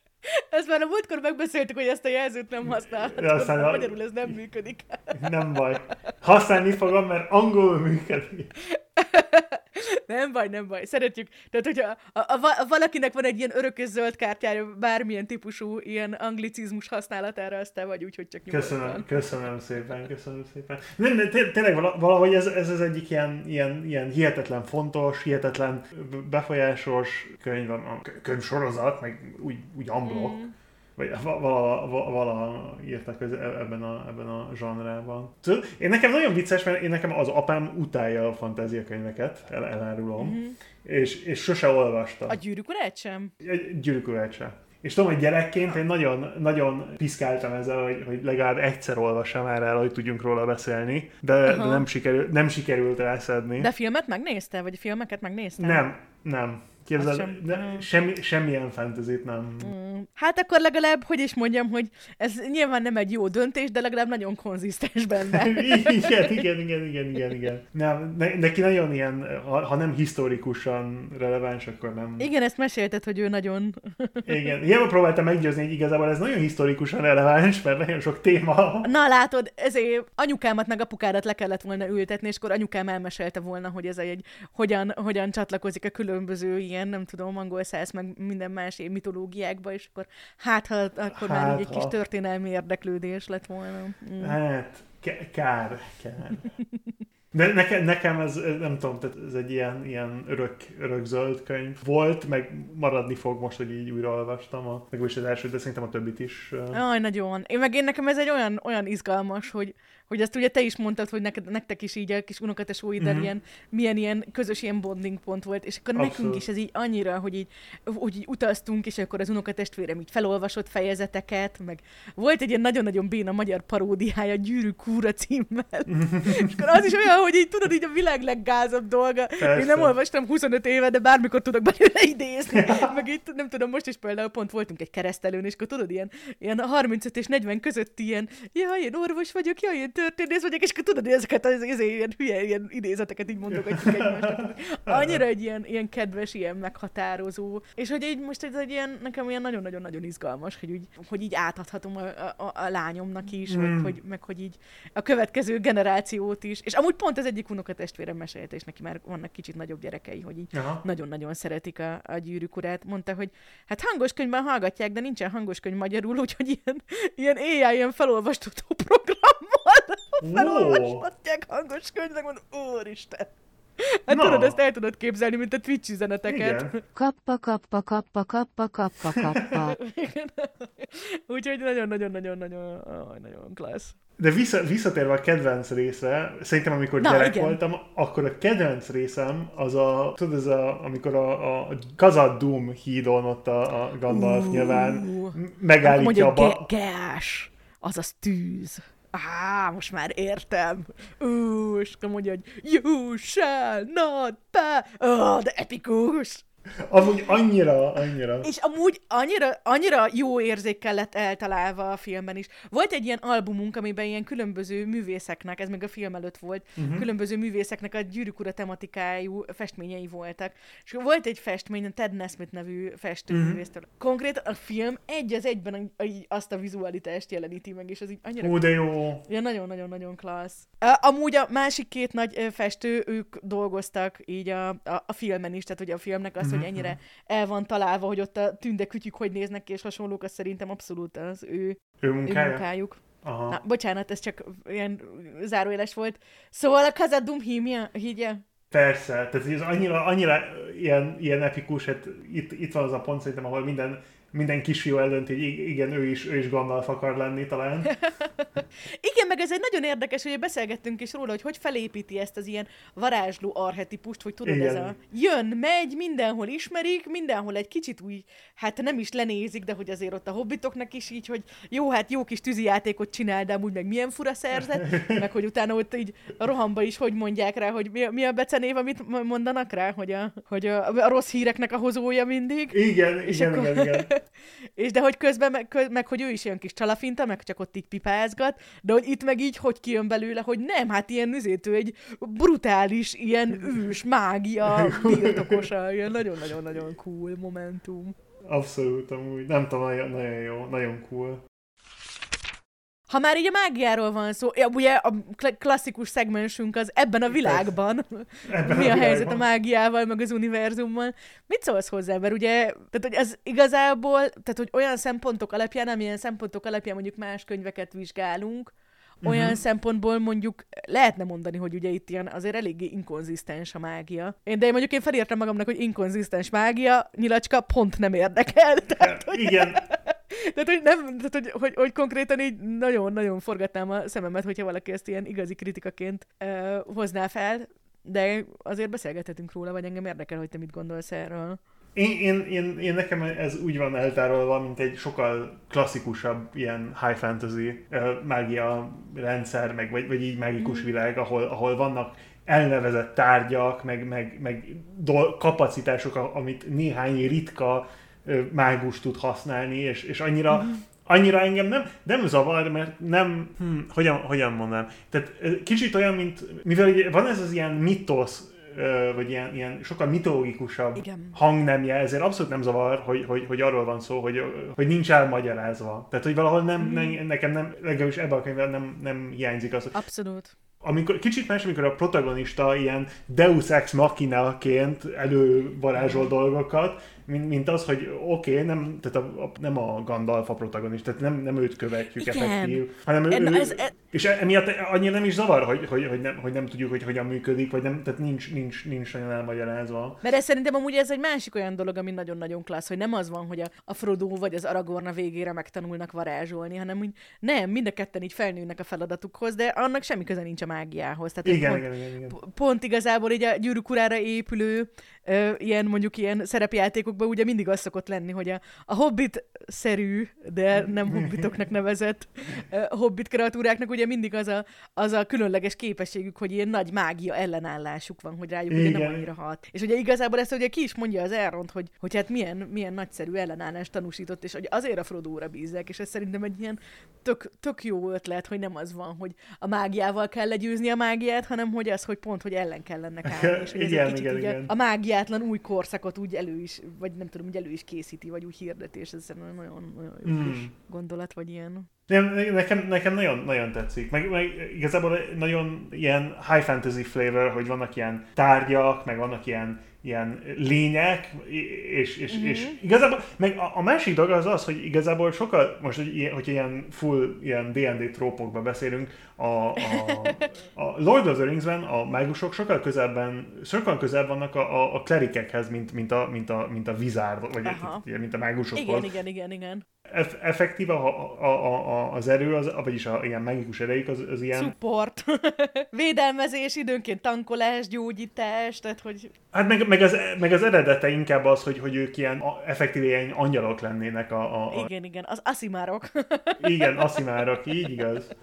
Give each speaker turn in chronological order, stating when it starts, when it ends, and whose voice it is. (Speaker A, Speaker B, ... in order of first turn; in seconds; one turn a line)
Speaker A: 0.3-5.2
Speaker B: 2.7-4.3
Speaker B: 5.1-8.5
Speaker A: 8.7-19.1
Speaker B: 18.5-30.4
Speaker A: 30.0-30.5
Speaker B: 31.0-42.4
Speaker A: 40.2-40.6
Speaker A: 42.3-43.3
Speaker B: 43.4-53.7
Speaker A: 51.5-51.9
Speaker A: 53.6-55.8
Speaker B: 55.6-59.7
Speaker A: 57.0-57.9
Speaker A: 59.6-66.4
Speaker B: 65.3-72.3
Speaker A: 72.2-74.3
Speaker B: 74.2-78.9
Speaker A: 78.8-94.3
Speaker B: 91.1-91.9
Speaker B: 94.2-96.5
Speaker A: 96.5-96.9
Speaker B: 97.3-106.8
Speaker A: 106.7-176.8
Speaker B: 113.0-113.3
Speaker B: 115.9-116.4
Speaker B: 125.9-126.7
Speaker B: 129.4-129.9
Speaker B: 132.5-132.9
Speaker B: 143.5-145.2
Speaker B: 153.5-153.9
Speaker B: 160.5-160.8
Speaker B: 170.2-171.0
Speaker B: 174.1-174.6
Speaker B: 176.3-176.7
Speaker C: 176.9-179.8
Speaker B: 179.1-179.5
Speaker A: 179.5-183.9
Speaker B: 184.2-196.7
Speaker A: 187.0-187.6
Speaker A: 194.1-206.4
Speaker B: 206.8-208.5
Speaker A: 208.4-228.7
Speaker B: 216.8-217.1
Speaker B: 223.3-223.6
Speaker B: 228.4-229.2
Speaker A: 229.2-248.4
Speaker B: 236.4-236.9
Speaker B: 242.0-242.6
Speaker B: 243.2-243.6
Speaker B: 248.7-257.9
Speaker A: 257.9-284.2
Speaker B: 264.4-264.9
Speaker B: 274.7-275.2
Speaker B: 282.7-284.1
Speaker A: 284.8-298.1
Speaker B: 294.6-295.7
Speaker B: 298.4-301.4
Speaker A: 303.1-318.7
Speaker B: 307.3-307.6
Speaker B: 308.5-309.4
Speaker B: 319.2-319.6
Speaker A: 319.2-341.6
Speaker B: 329.0-329.8
Speaker B: 341.9-379.9
Speaker A: 350.6-350.9
Speaker A: 360.5-360.8
Speaker A: 370.9-371.4
Speaker A: 376.8-377.2
Speaker A: 379.9-380.5
Speaker B: 380.8-400.2
Speaker A: 392.2-393.9
Speaker A: 400.2-451.9
Speaker B: 411.4-412.4
Speaker B: 420.7-421.6
Speaker B: 428.7-429.2
Speaker B: 443.2-444.7
Speaker B: 450.2-450.7
Speaker B: 452.1-479.1
Speaker A: 462.3-462.8
Speaker A: 469.8-470.5
Speaker A: 477.6-478.0
Speaker A: 478.7-479.8
Speaker B: 480.1-484.7
Speaker A: 484.5-489.3
Speaker B: 489.5-494.9
Speaker A: 494.7-497.2
Speaker B: 496.6-498.3